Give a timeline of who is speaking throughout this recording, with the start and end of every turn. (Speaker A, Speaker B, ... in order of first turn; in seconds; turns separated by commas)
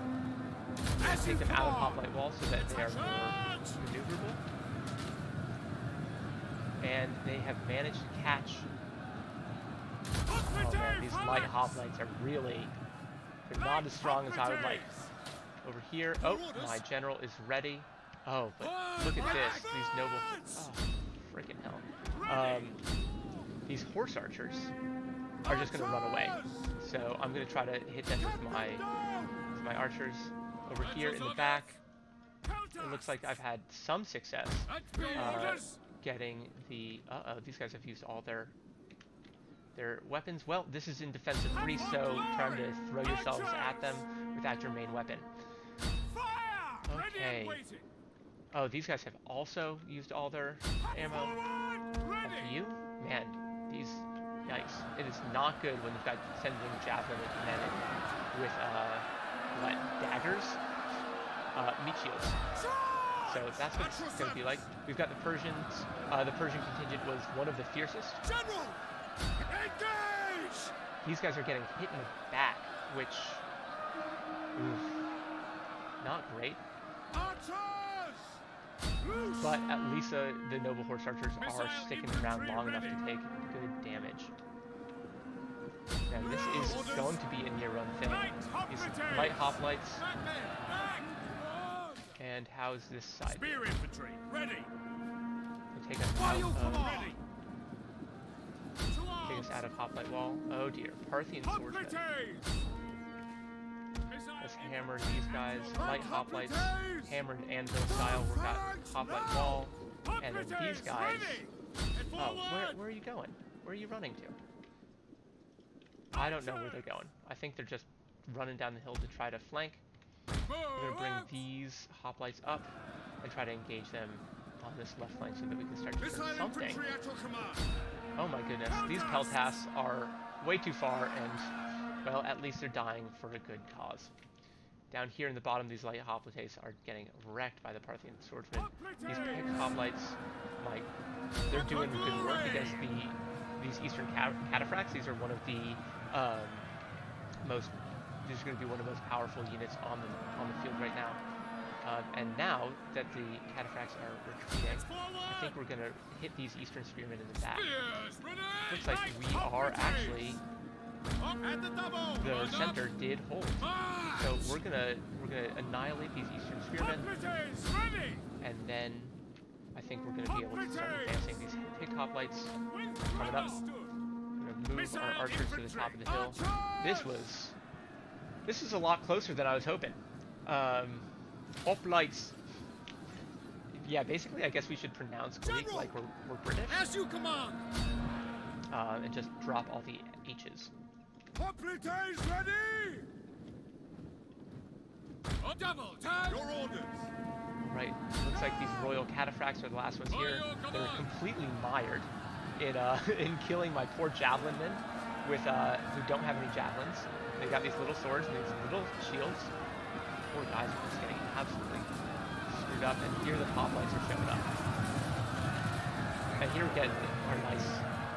Speaker A: 1.0-4.4, Speaker B: 1.0-3.8, Speaker A: 6.8-8.7, Speaker B: 10.3-11.8, Speaker A: 10.4-12.8, Speaker A: 13.5-14.9, Speaker B: 13.6-15.1, Speaker A: 15.6-22.8, Speaker B: 16.2-16.8, Speaker B: 18.6-20.6, Speaker B: 22.1-23.3, Speaker A: 23.7-24.7, Speaker B: 25.4-26.7, Speaker A: 25.4-31.8, Speaker B: 28.2-29.3, Speaker B: 30.8-31.7, Speaker B: 32.4-33.4, Speaker A: 32.8-38.5, Speaker B: 34.7-35.8, Speaker A: 39.8-45.3, Speaker B: 41.5-44.0, Speaker B: 46.1-47.9, Speaker A: 46.9-47.6, Speaker A: 48.5-51.4, Speaker B: 50.8-52.6, Speaker A: 52.2-60.6, Speaker A: 61.5-62.4, Speaker B: 62.5-64.6, Speaker A: 63.2-68.2, Speaker B: 68.2-68.8, Speaker B: 69.4-70.8, Speaker A: 71.0-73.5, Speaker A: 74.5-75.1, Speaker A: 76.0-76.6, Speaker B: 77.1-78.4, Speaker B: 79.0-79.6, Speaker A: 79.4-84.3, Speaker B: 81.4-83.0, Speaker A: 86.1-90.1, Speaker B: 86.2-87.2, Speaker B: 88.0-92.2, Speaker A: 92.2-93.7, Speaker B: 93.3-94.7, Speaker A: 95.7-97.2, Speaker B: 96.2-97.2, Speaker B: 98.9-99.7, Speaker A: 99.2-102.0, Speaker B: 101.4-102.7, Speaker B: 104.1-107.1, Speaker A: 104.4-111.5, Speaker B: 107.9-112.8, Speaker A: 112.2-114.4, Speaker B: 116.1-116.9, Speaker A: 116.1-119.8, Speaker B: 120.5-121.3, Speaker A: 120.7-126.8, Speaker B: 126.0-127.7, Speaker A: 128.2-131.5, Speaker B: 128.8-129.5, Speaker A: 132.0-134.1, Speaker A: 134.9-140.9, Speaker B: 138.9-139.4, Speaker A: 141.5-146.7, Speaker B: 141.5-142.8, Speaker A: 147.4-151.2, Speaker A: 151.8-157.8, Speaker B: 154.6-155.5, Speaker B: 157.5-160.4, Speaker A: 158.7-160.4, Speaker B: 161.2-162.9, Speaker A: 162.2-167.2, Speaker B: 163.6-164.6, Speaker B: 166.8-168.3, Speaker A: 168.4-169.2, Speaker A: 169.8-172.6, Speaker B: 170.3-171.2, Speaker B: 172.7-174.0, Speaker A: 173.1-173.7, Speaker A: 174.4-177.6, Speaker B: 174.7-177.2, Speaker A: 178.5-181.1, Speaker A: 181.7-182.4, Speaker A: 183.7-186.9, Speaker B: 185.4-185.9, Speaker B: 186.7-187.7, Speaker A: 188.7-190.7, Speaker B: 191.3-193.1, Speaker B: 195.4-197.1, Speaker A: 197.6-209.5, Speaker B: 200.1-201.1, Speaker A: 210.3-211.9, Speaker A: 212.5-214.6, Speaker A: 216.4-217.9